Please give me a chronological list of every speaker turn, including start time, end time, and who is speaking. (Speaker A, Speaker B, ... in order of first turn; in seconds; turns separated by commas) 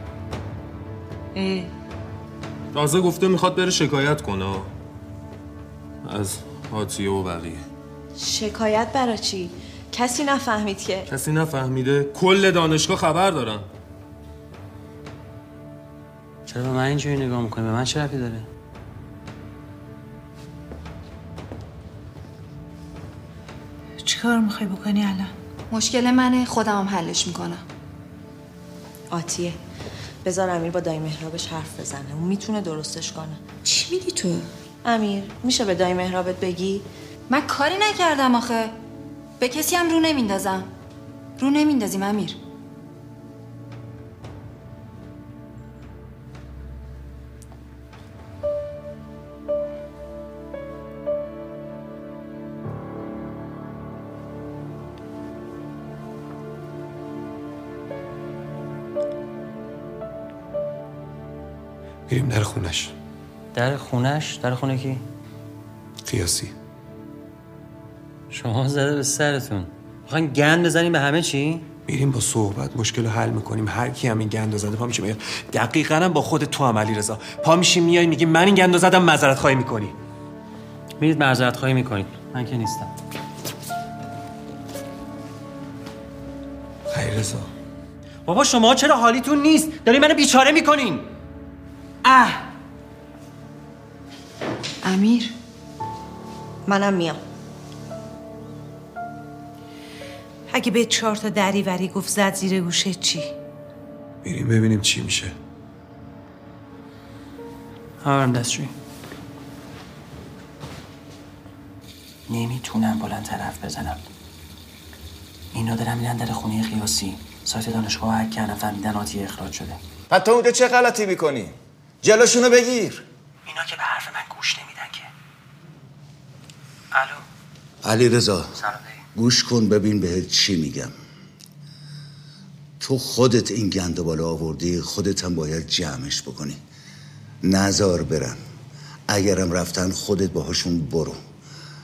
Speaker A: 1.4-1.7, Speaker B: 2.7-4.7, Speaker B: 6.0-7.6, Speaker C: 8.2-11.1, Speaker B: 11.1-13.7, Speaker D: 16.5-18.5, Speaker A: 24.0-25.3, Speaker E: 25.7-27.6, Speaker C: 29.1-29.6, Speaker C: 30.2-33.4, Speaker A: 33.7-34.4, Speaker C: 34.9-36.9, Speaker E: 37.3-38.8, Speaker E: 39.4-40.7, Speaker E: 41.4-42.4, Speaker F: 62.1-62.9, Speaker D: 63.5-65.0, Speaker F: 66.1-66.5, Speaker D: 68.3-71.7, Speaker F: 71.9-80.0, Speaker D: 81.0-82.9, Speaker F: 86.9-87.5, Speaker D: 88.3-91.1, Speaker D: 92.0-92.4, Speaker E: 94.8-95.3, Speaker C: 96.7-97.2, Speaker A: 100.5-103.3, Speaker F: 104.2-105.4, Speaker D: 108.0-108.7, Speaker D: 112.3-114.0, Speaker D: 115.5-119.8, Speaker G: 120.1-123.0, Speaker D: 123.5-125.1, Speaker D: 126.9-127.2, Speaker H: 127.8-128.5, Speaker D: 128.6-129.0, Speaker H: 129.2-130.9, Speaker H: 132.8-136.6, Speaker H: 137.4-138.4, Speaker H: 139.1-141.2